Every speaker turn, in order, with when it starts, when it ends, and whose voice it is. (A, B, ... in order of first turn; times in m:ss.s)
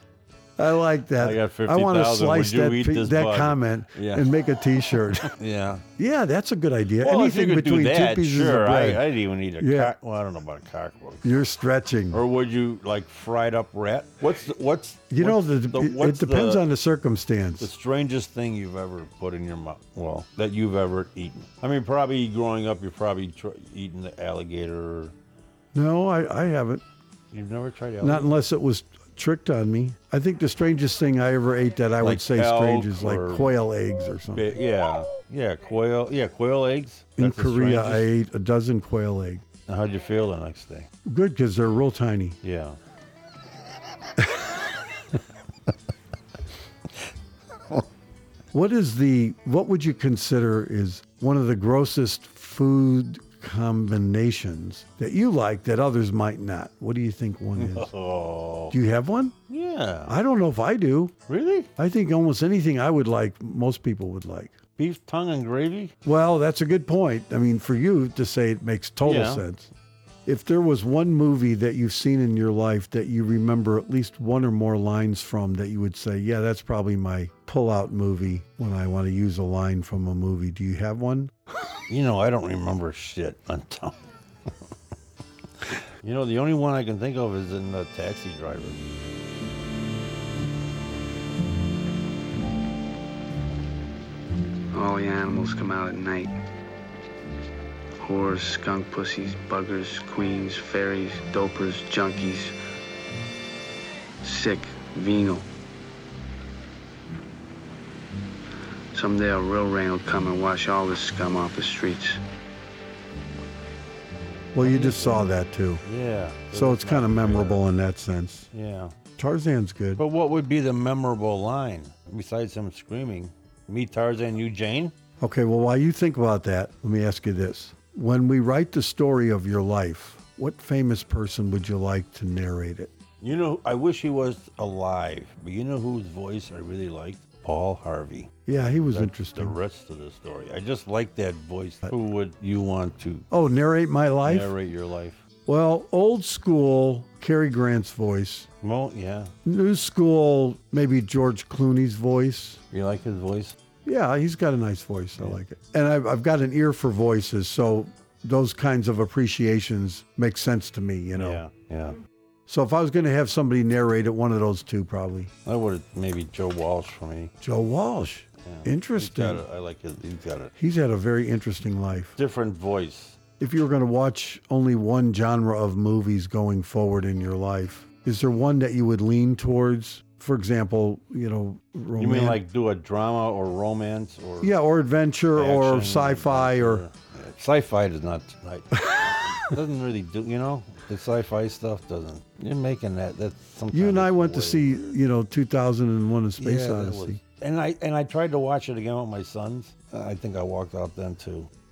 0:00.6-0:05.3 A
0:01.2-0:04.3 B
0:04.9-0:05.8 B
0:06.0-0:09.1 A
0:07.0-0:11.4 B
0:09.6-0:09.9 A
0:11.2-0:12.2 A
0:12.1-0:16.6 B
0:15.1-0:17.7 A
0:17.6-0:25.1 B
0:25.7-0:26.8 A
0:27.3-0:28.3 B
0:28.0-0:34.5 A
0:32.0-0:33.5 B
0:34.3-0:38.1 B
0:37.2-0:39.4 A
0:39.7-0:40.9 B
0:41.0-0:42.4 A
0:42.4-0:42.8 B
0:48.5-0:57.9 A
0:57.6-0:58.8 B
0:58.7-0:59.3 A
0:59.5-1:00.2 B
1:00.1-1:01.1 A
1:01.3-1:01.7 B
1:01.8-1:04.6 A
1:04.8-1:05.9 B
1:06.0-1:09.7 A
1:09.0-1:09.4 B
1:10.2-1:21.3 A
1:21.9-1:24.0 B
1:26.0-1:28.8 B
1:34.7-1:36.3 C
1:38.0-1:42.6 C
1:44.2-1:45.5 C
1:48.9-1:52.2 C
1:54.5-1:55.8 A
1:54.6-1:55.3 B
1:55.8-1:57.6 B
1:56.5-1:58.5 A
1:58.5-1:58.9 B
1:59.2-2:00.0 A
2:00.0-2:04.9 B
2:05.2-2:12.9 A
2:13.2-2:18.3 B
2:18.4-2:19.6 A
2:18.9-2:23.2 B
2:23.3-2:24.5 A
2:24.2-2:25.2 B
2:25.4-2:28.5 A
2:28.6-2:29.3 B
2:29.4-2:32.6 A
2:32.7-2:33.6 B
2:33.8-2:41.4 A
2:41.1-2:42.0 B
2:42.5-2:45.3 A
2:45.4-2:47.3 B
2:47.4-2:49.4 A
2:48.4-2:50.5 B
2:50.6-2:52.2 A
2:52.2-2:53.2 B
2:53.4-3:02.4 A
3:02.0-3:04.5 B
3:04.4-3:06.8 A
3:05.3-3:14.9 B
3:13.7-3:17.2 A
3:16.4-3:21.5 B